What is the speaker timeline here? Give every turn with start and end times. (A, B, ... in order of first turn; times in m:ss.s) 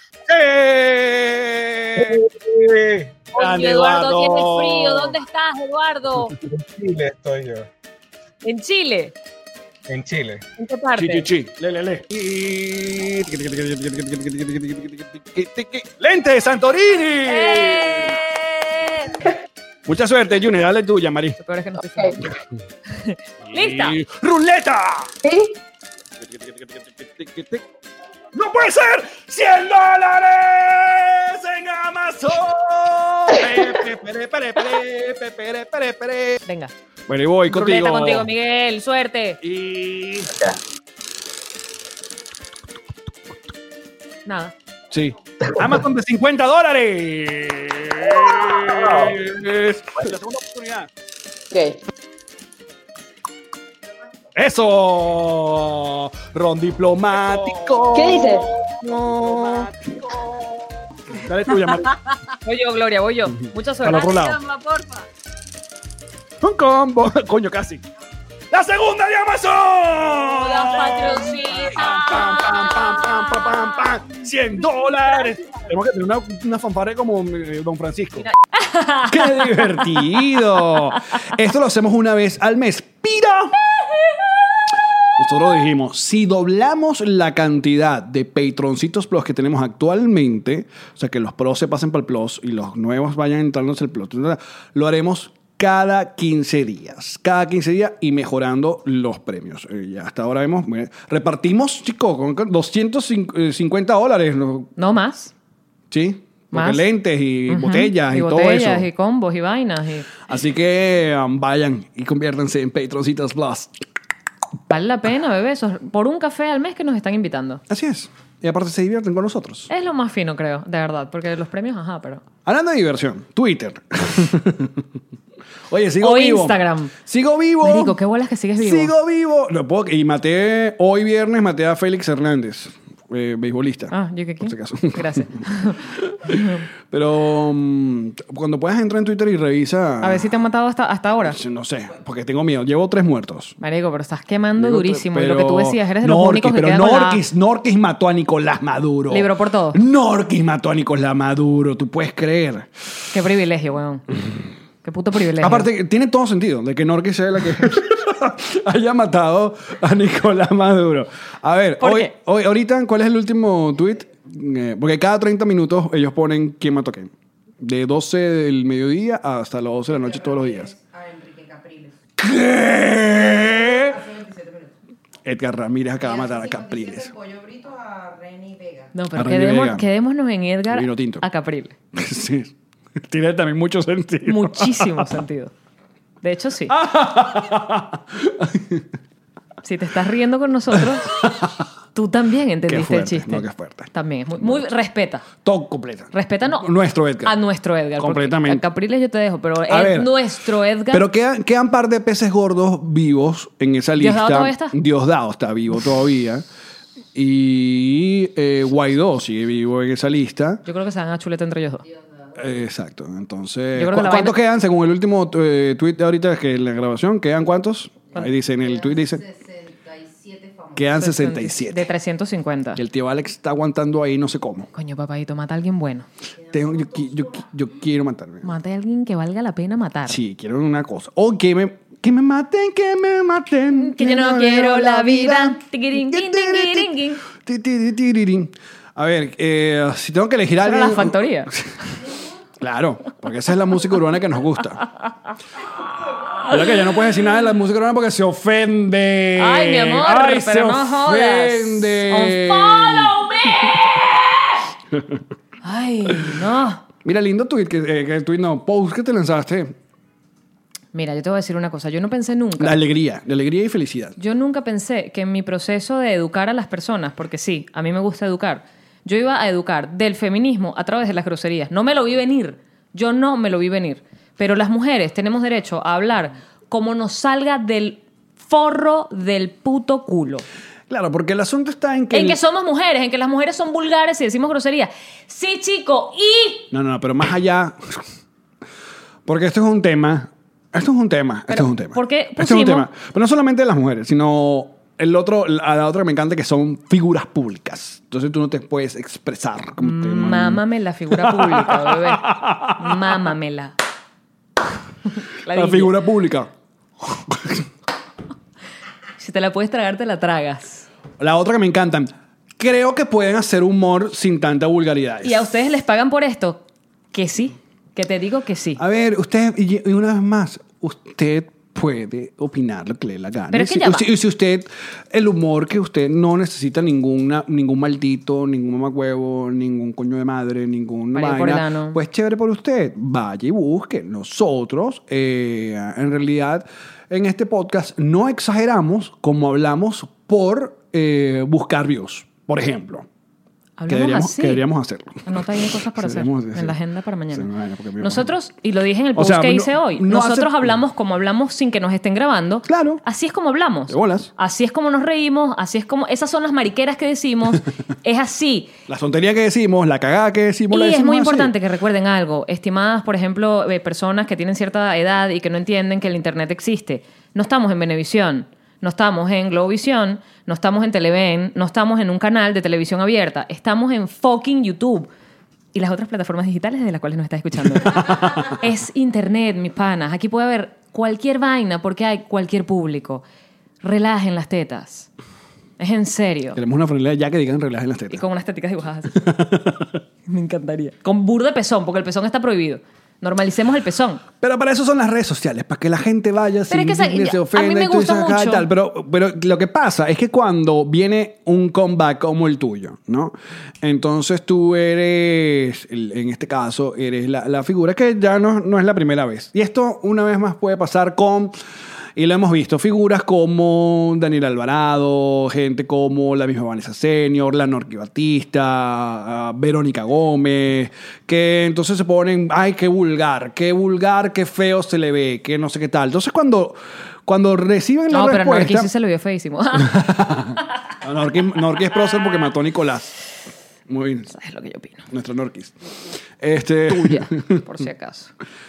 0:00.3-0:02.2 A
0:02.1-0:03.1 B
0:03.3-0:05.2 A
0:03.3-0:06.4 C
0:06.3-0:07.7 B
0:08.4-0:09.1 C
0:09.9-0:10.4 B
0:10.6-0:11.3 C
0:11.0-0:18.2 A
0:17.2-0:19.3 C
0:19.9-0:21.4 A
0:21.4-0:22.2 C
0:22.9-0:24.0 C
0:23.4-0:25.1 A
0:25.2-0:25.6 B
0:26.2-0:27.6 A
0:28.3-0:36.4 A
0:36.4-0:36.7 C
0:37.1-0:38.3 A
0:37.5-0:39.4 C
0:39.4-0:40.3 A
0:44.2-0:44.5 C
0:44.9-0:50.9 A
0:48.7-0:49.1 B
0:51.5-0:51.8 B
0:54.4-1:02.0 A
0:57.9-0:58.4 B
0:59.1-0:59.7 C
1:01.5-1:05.1 C
1:03.3-1:04.4 A
1:06.4-1:07.8 A
1:08.5-1:18.3 A
1:10.2-1:13.6 C
1:18.2-1:20.9 C
1:19.0-1:23.6 A
1:25.2-1:44.7 A
1:44.8-1:45.3 C
1:45.9-1:48.9 A
1:46.5-1:46.8 C
1:47.5-1:50.1 C
1:50.2-1:53.7 A
1:54.7-1:57.6 C
1:57.7-1:59.7 A
1:59.7-2:02.2 C
2:02.4-2:04.9 A
2:05.7-2:08.0 A
2:06.0-2:06.9 C
2:07.6-2:08.9 C
2:08.6-2:20.3 A
2:13.9-2:16.6 C
2:20.0-2:21.4 C
2:21.2-2:23.6 A
2:23.6-2:27.2 C
2:24.6-2:32.7 A
2:29.1-2:29.8 C
2:33.1-2:34.0 C
2:34.8-2:35.7 C
2:35.4-2:50.7 A
2:41.8-2:42.1 C
2:49.9-2:52.0 D
2:52.2-2:54.0 A
2:53.2-2:54.7 D
2:55.2-2:57.1 A
2:56.0-2:59.0 D
2:58.9-3:01.7 C
2:59.2-2:59.8 A
3:00.7-3:01.2 A
3:01.9-3:02.5 A
3:03.0-3:05.1 A
3:04.2-3:05.5 C
3:06.2-3:06.8 C
3:06.7-3:08.8 A
3:09.6-3:11.3 C
3:11.2-3:11.6 A
3:11.9-3:15.3 C
3:12.6-3:14.7 A
3:15.4-3:17.4 A
3:16.1-3:16.6 C
3:17.2-3:21.0 C
3:18.0-3:18.6 A
3:19.7-3:20.2 A
3:20.9-3:26.4 A
3:24.0-3:24.8 C
3:27.1-3:30.6 A
3:30.6-3:31.9 C
3:32.4-3:39.2 A
3:33.7-3:34.4 C
3:38.6-3:40.9 D
3:40.8-3:41.9 A
3:41.0-3:42.8 C
3:42.7-3:44.7 A
3:44.7-3:46.1 C
3:46.5-3:47.4 D
3:46.5-3:48.5 A
3:48.4-3:50.2 C
3:50.1-4:01.7 A
3:53.7-3:57.2 C
4:00.6-4:01.5 C
4:02.6-4:04.9 A
4:06.4-4:13.2 A
4:09.4-4:14.2 C
4:14.9-4:15.2 A
4:15.6-4:16.8 C
4:17.0-4:19.7 A
4:20.9-4:22.8 C
4:22.6-4:24.2 A
4:24.2-4:40.4 C
4:40.9-4:42.4 A
4:42.1-4:46.7 C
4:46.7-4:48.0 A
4:49.2-5:03.1 A
4:51.5-4:52.9 C
4:59.8-5:03.7 C
5:05.4-5:06.0 C
5:05.5-5:06.5 A
5:07.0-5:07.6 A
5:09.2-5:10.9 C
5:11.2-5:15.4 A
5:15.2-5:18.8 C
5:18.8-5:43.1 A
5:23.5-5:24.1 C
5:31.1-5:32.0 C
5:43.8-5:44.6 C
5:43.9-5:46.7 A
5:45.2-5:58.7 C
5:47.3-5:48.3 A
5:49.2-5:50.7 A
5:52.7-5:53.0 A
5:53.9-5:54.3 A
5:58.9-6:01.5 A
6:00.7-6:15.1 C
6:15.7-6:23.2 C
6:23.8-6:25.1 C
6:25.8-6:26.6 C
6:26.6-6:28.2 A
6:28.1-6:29.1 C
6:29.1-6:30.0 A
6:30.2-6:34.2 C
6:34.4-6:51.6 A
6:36.7-6:38.6 C
6:52.2-7:08.9 A
7:08.1-7:10.1 C
7:09.8-7:13.1 A
7:13.9-7:14.3 A
7:14.3-7:15.0 C
7:15.1-7:15.7 A
7:16.4-7:17.6 A
7:16.9-7:18.3 C